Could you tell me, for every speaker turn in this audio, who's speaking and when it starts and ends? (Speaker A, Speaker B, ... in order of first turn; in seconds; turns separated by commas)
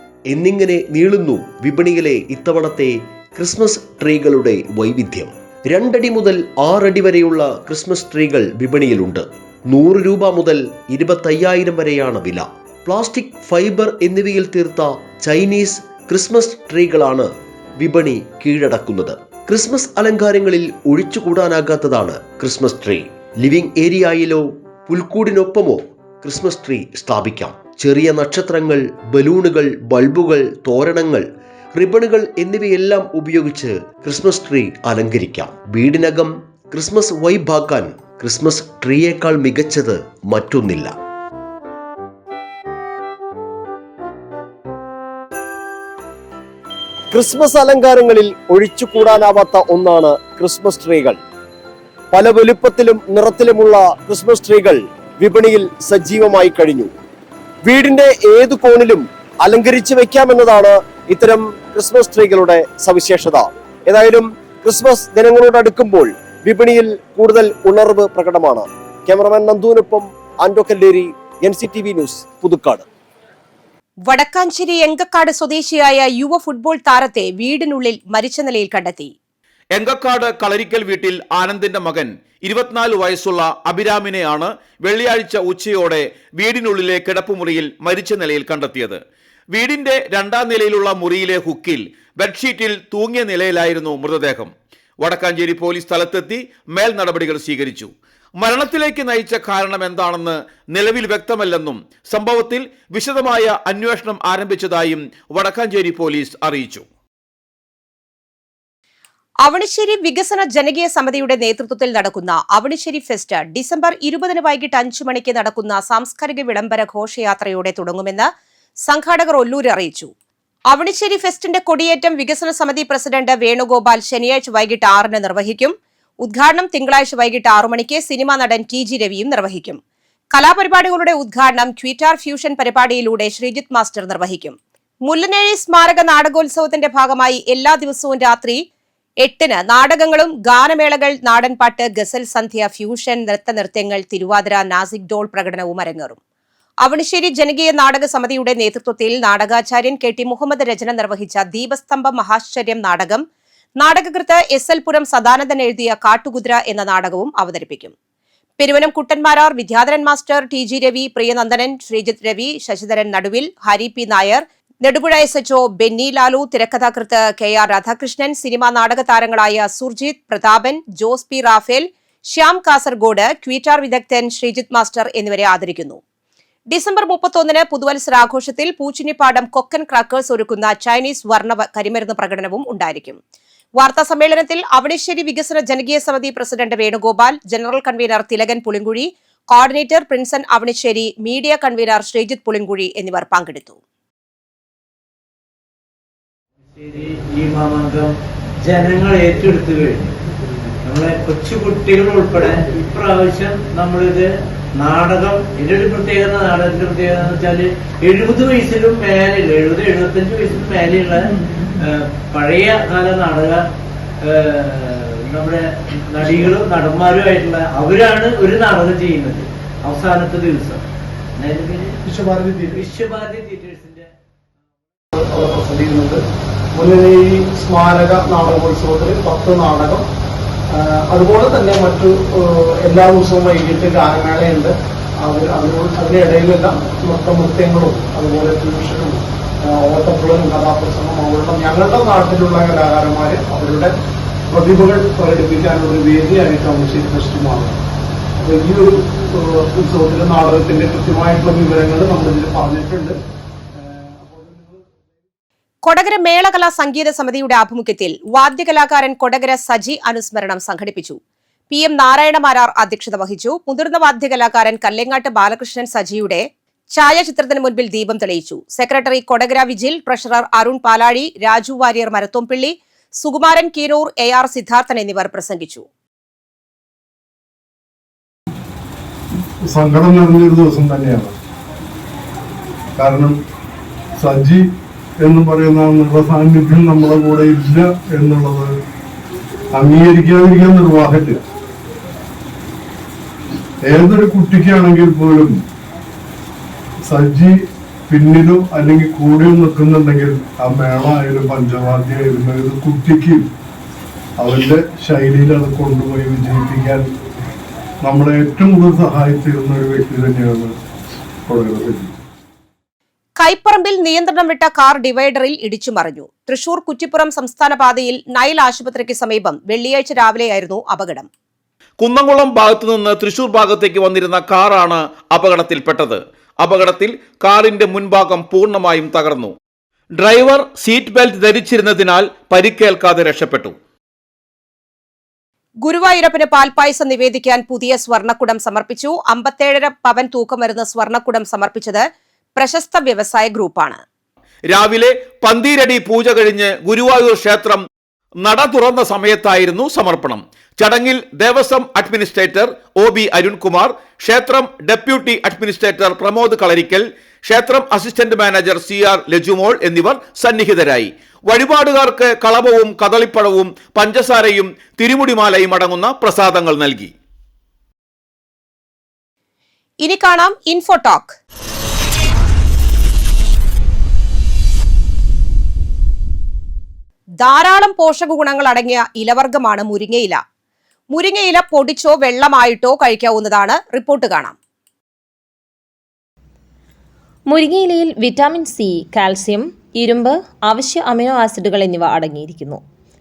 Speaker A: 0.3-40.9, Speaker B: 47.1-51.2, Speaker B: 52.1-56.9, Speaker B: 57.6-72.8, Speaker C: 74.1-79.1, Speaker D: 79.7-89.0, Speaker D: 89.5-106.8, Speaker C: 109.4-118.3, Speaker C: 118.9-120.1, Speaker C: 120.7-129.8, Speaker C: 130.3-138.6, Speaker C: 139.2-146.2, Speaker C: 146.8-153.2, Speaker C: 153.8-157.9, Speaker C: 158.6-176.0, Speaker C: 176.7-183.2, Speaker C: 183.8-193.8, Speaker E: 196.8-200.1, Speaker E: 200.8-211.3, Speaker E: 211.8-213.7, Speaker E: 214.2-220.8, Speaker E: 221.4-222.0, Speaker F: 222.1-222.9, Speaker E: 222.8-224.1, Speaker F: 225.2-226.2, Speaker F: 226.7-230.1, Speaker F: 230.7-243.9, Speaker F: 244.5-247.8, Speaker F: 248.4-253.2, Speaker F: 254.2-254.8, Speaker C: 255.8-261.2, Speaker C: 261.7-275.9, Speaker G: 279.7-281.3, Speaker G: 283.0-283.4, Speaker G: 284.2-284.6, Speaker G: 285.2-288.7, Speaker G: 289.7-291.4, Speaker G: 293.9-295.6, Speaker G: 297.1-297.5, Speaker G: 298.1-303.4, Speaker G: 304.4-307.1, Speaker G: 308.1-310.7, Speaker G: 311.5-312.1, Speaker C: 313.4-321.3, Speaker D: 322.0-329.5, Speaker D: 330.2-333.8, Speaker C: 335.8-342.1, Speaker C: 342.6-344.0, Speaker D: 344.7-347.8, Speaker D: 348.4-367.1, Speaker C: 370.0-371.4, Speaker C: 377.4-380.4, Speaker C: 381.1-384.6, Speaker H: 387.5-392.8